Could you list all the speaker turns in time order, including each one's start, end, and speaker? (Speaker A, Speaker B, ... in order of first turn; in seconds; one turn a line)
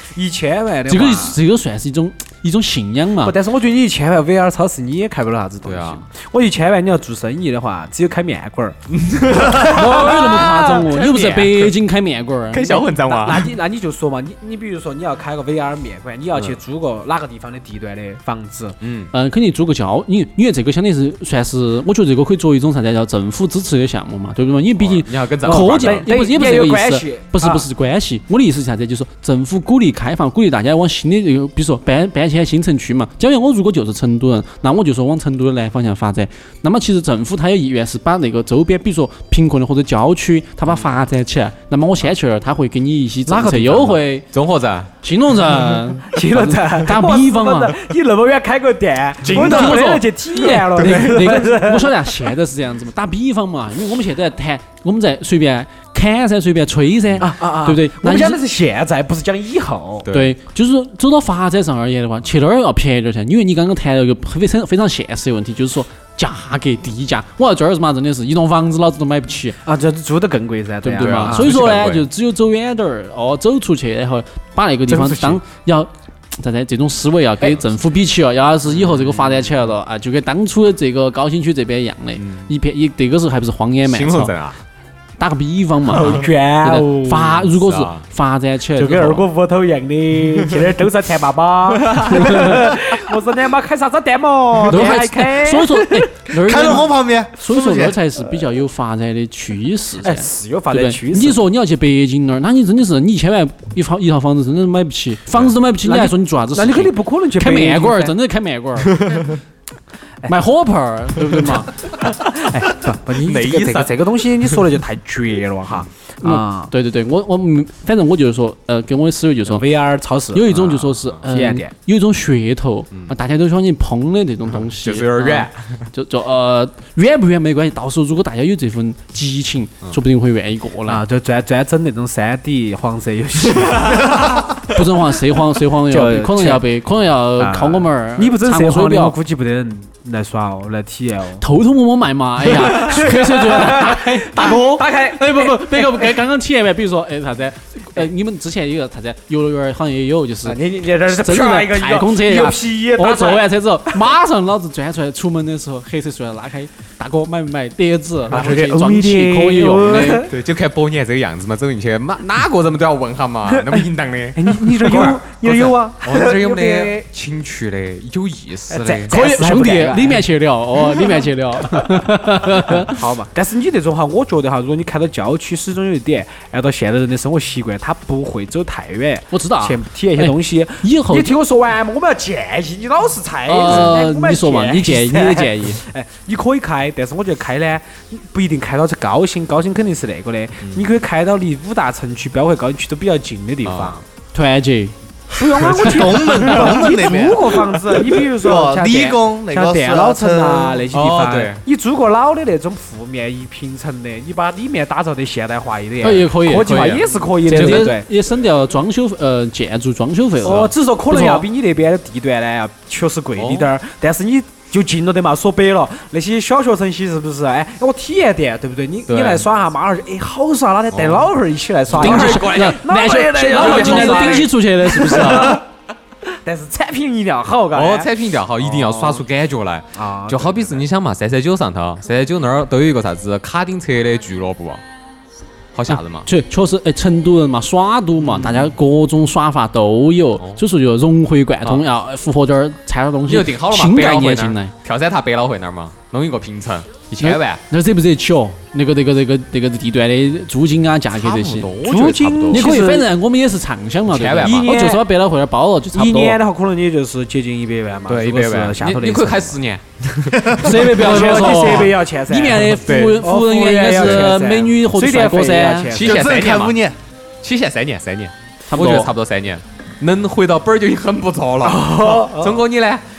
Speaker A: 0.1-1.4
Speaker B: 0.9-3.4
Speaker A: 3.2-8.8
Speaker C: 5.6-6.0
Speaker C: 8.9-11.7
Speaker A: 9.3-10.9
Speaker B: 9.6-12.8
Speaker C: 12.5-13.5
Speaker A: 12.7-18.8
Speaker C: 18.8-19.1
Speaker B: 19.1-44.3
Speaker C: 24.8-26.1
Speaker A: 25.4-27.6
Speaker A: 43.3-44.0
Speaker C: 44.3-44.9
Speaker B: 45.0-47.8
Speaker A: 46.1-52.1
Speaker C: 49.2-49.7
Speaker B: 49.2-58.4
Speaker C: 50.8-51.3
Speaker A: 57.2-60.0
Speaker C: 60.0-60.3
Speaker B: 60.1-69.5
Speaker A: 69.6-71.5
Speaker B: 70.8-84.3
Speaker C: 70.9-72.1
Speaker A: 74.9-75.4
Speaker C: 78.8-79.5
Speaker C: 82.2-82.5
Speaker C: 83.8-84.6
Speaker B: 85.2-89.2
Speaker A: 85.9-87.3
Speaker C: 87.4-88.0
Speaker A: 88.8-95.9
Speaker C: 91.7-92.3
Speaker B: 92.0-92.6
Speaker B: 94.7-108.9
Speaker D: 96.3-98.0
Speaker A: 100.0-101.4
Speaker A: 105.8-108.1
Speaker C: 108.8-109.3
Speaker B: 110.3-111.7
Speaker A: 112.0-116.7
Speaker C: 113.1-114.1
Speaker B: 116.2-119.6
Speaker A: 119.5-120.6
Speaker B: 120.3-131.0
Speaker C: 120.5-121.2
Speaker A: 121.3-121.7
Speaker C: 124.7-125.8
Speaker A: 130.9-134.4
Speaker C: 133.9-134.5
Speaker B: 134.6-139.2
Speaker A: 135.9-136.6
Speaker A: 137.4-141.4
Speaker B: 141.4-160.3
Speaker A: 142.4-146.2
Speaker A: 150.4-154.0
Speaker A: 158.3-160.3
Speaker C: 160.2-169.1
Speaker A: 163.5-167.1
Speaker A: 168.7-170.2
Speaker B: 169.1-173.0
Speaker A: 170.9-171.2
Speaker A: 172.8-194.0
Speaker B: 179.3-181.3
Speaker B: 183.5-185.8
Speaker C: 193.6-194.0
Speaker B: 194.3-194.9
Speaker A: 195.3-208.1
Speaker D: 195.8-197.7
Speaker D: 198.2-200.8
Speaker C: 200.9-201.6
Speaker B: 206.0-211.4
Speaker C: 206.5-207.9
Speaker A: 210.4-225.6
Speaker C: 210.4-210.7
Speaker C: 213.3-213.7
Speaker C: 219.1-219.4
Speaker C: 220.9-221.3
Speaker C: 221.9-222.8
Speaker B: 221.9-225.6
Speaker C: 223.4-224.5
Speaker A: 226.4-229.2
Speaker C: 227.7-234.8
Speaker A: 229.9-230.8
Speaker C: 235.7-236.3
Speaker B: 235.9-244.7
Speaker C: 238.2-238.7
Speaker C: 243.3-247.6
Speaker B: 247.2-251.7
Speaker C: 251.1-252.7
Speaker A: 251.8-253.1
Speaker B: 252.5-256.4
Speaker C: 254.1-254.7
Speaker A: 254.4-255.1
Speaker A: 255.9-259.6
Speaker C: 258.1-261.9
Speaker B: 260.6-265.9
Speaker A: 260.7-266.2
Speaker C: 262.8-263.2
Speaker C: 263.9-264.3
Speaker C: 265.9-266.8
Speaker D: 266.0-266.9
Speaker C: 267.4-273.0
Speaker B: 268.7-269.1
Speaker A: 271.6-272.7